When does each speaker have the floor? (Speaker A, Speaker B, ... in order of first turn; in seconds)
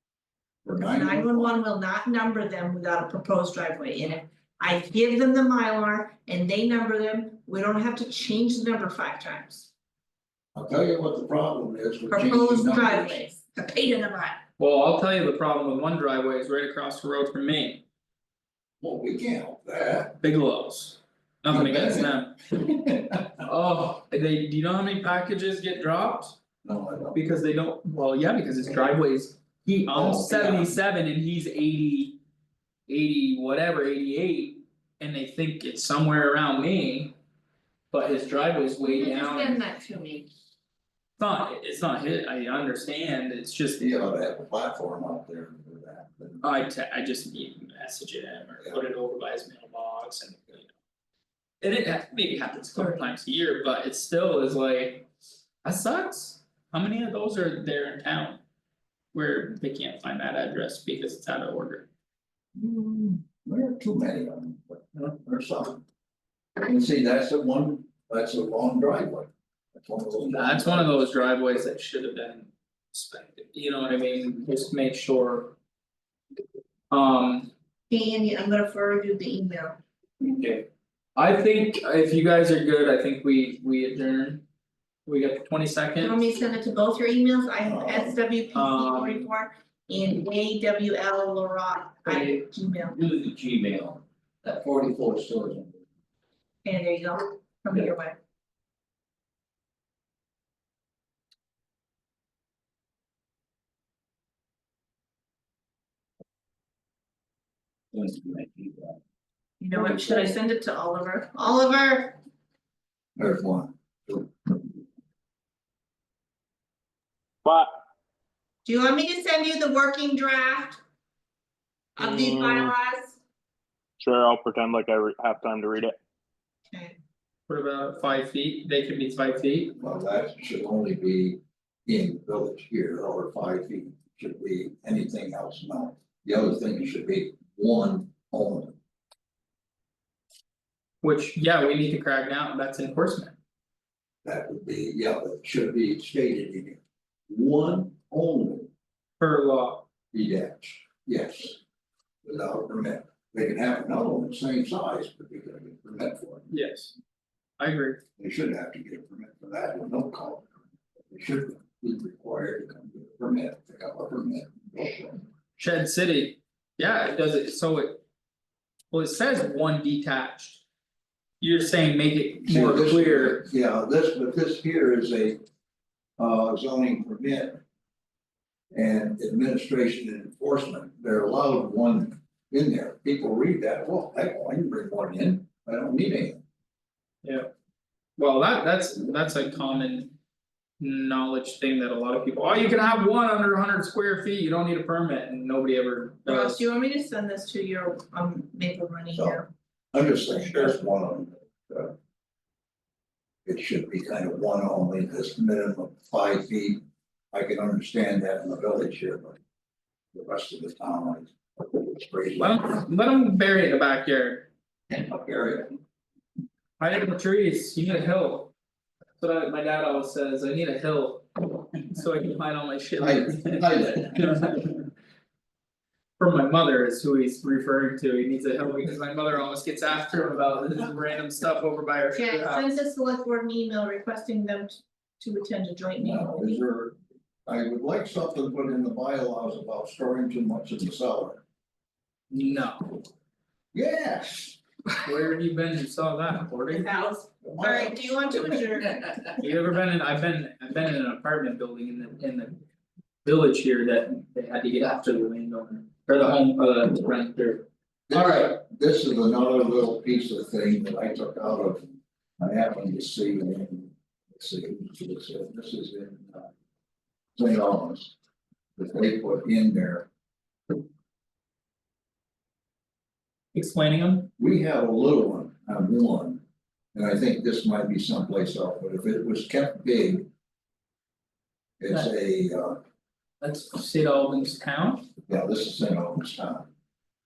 Speaker A: 0.6-1.6, 10.5-13.2, 18.8-20.2, 21.5-23.4, 26.6-27.2, 29.9-30.7, 43.8-46.5, 62.5-65.8, 66.6-71.1, 87.6-88.2, 92.1-95.8, 107.9-109.0, 109.7-110.4, 113.2-114.7, 129.8-138.8, 144.2-148.7, 150.1-151.6, 152.2-156.5, 158.2-160.5, 161.1-165.2, 172.4-175.4, 176.2-177.6, 178.7-186.4, 199.1-201.9, 203.5-209.4, 210.1-212.6, 214.9-215.8, 223.0-224.4, 236.0-236.9, 237.5-241.4, 243.7-244.6, 247.4-248.6, 258.1-266.5, 267.4-268.1, 268.8-270.1, 274.4-276.4, 276.9-280.3, 281.8-282.8, 285.3-286.7
Speaker B: 0.8-9.7, 12.1-14.4, 38.8-40.3, 77.9-79.8, 86.0-93.0, 96.7-98.2, 109.6-112.2, 118.7-120.8, 122.0-123.2, 126.7-127.0, 196.2-199.5, 232.2-236.6, 246.7-249.1
Speaker C: 14.6-17.8, 20.2-22.3, 23.4-26.4, 27.1-32.2, 32.9-37.1, 37.9-39.6, 41.2-43.9, 46.4-50.7, 51.6-55.1, 55.6-58.4, 59.1-61.9, 70.2-75.6, 76.9-77.5, 80.2-84.4, 85.1-86.2, 88.5-89.3, 127.5-129.8, 141.0-143.4, 149.2-149.9, 156.5-156.9, 157.6-158.0, 165.6-168.0, 168.9-170.6, 171.4-173.4, 187.2-187.5, 188.2-190.1, 190.8-196.7, 200.4-200.8, 212.4-214.5, 216.8-218.5, 219.2-224.9, 226.2-232.8, 242.3-243.0, 245.0-246.9, 249.4-252.6, 253.2-258.5, 273.5-274.3, 283.4-285.1
Speaker D: 117.5-117.7, 122.0-122.7, 124.0-125.9